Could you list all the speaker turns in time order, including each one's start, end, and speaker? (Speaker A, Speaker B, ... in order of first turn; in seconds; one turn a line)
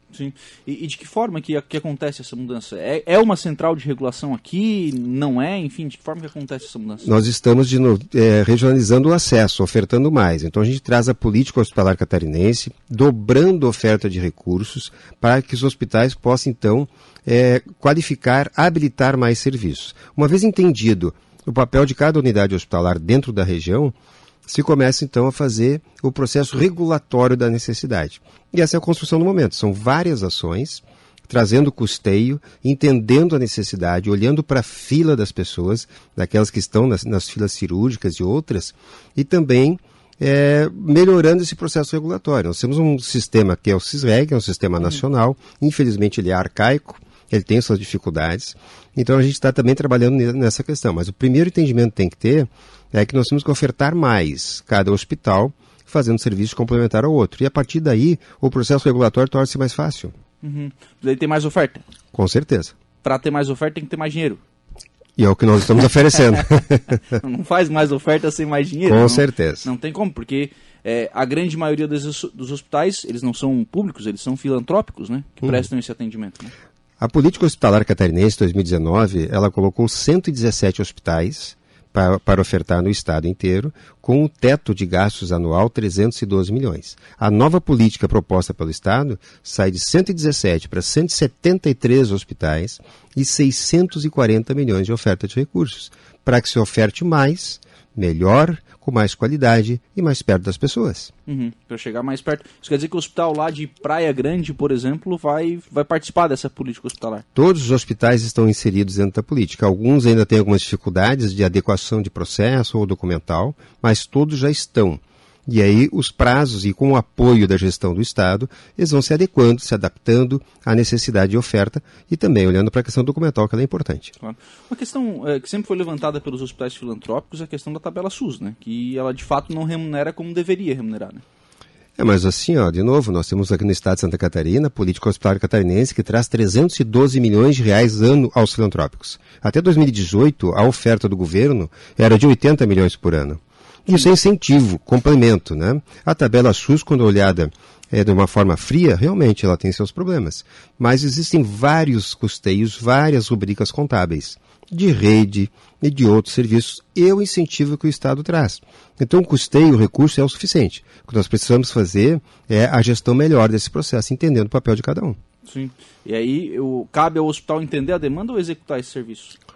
Speaker A: 0.1-7.1
Speaker B: 7.0-23.9
Speaker B: 24.5-60.1
Speaker A: 60.4-61.8
Speaker B: 62.1-62.7
Speaker A: 63.0-64.4
Speaker B: 65.2-67.0
Speaker A: 67.1-76.5
Speaker B: 68.9-69.7
Speaker B: 77.0-101.1
Speaker A: 101.3-107.2
Speaker B: 107.3-124.1
Speaker A: 124.2-131.2
Speaker B: 132.0-165.2
Speaker A: 165.5-169.4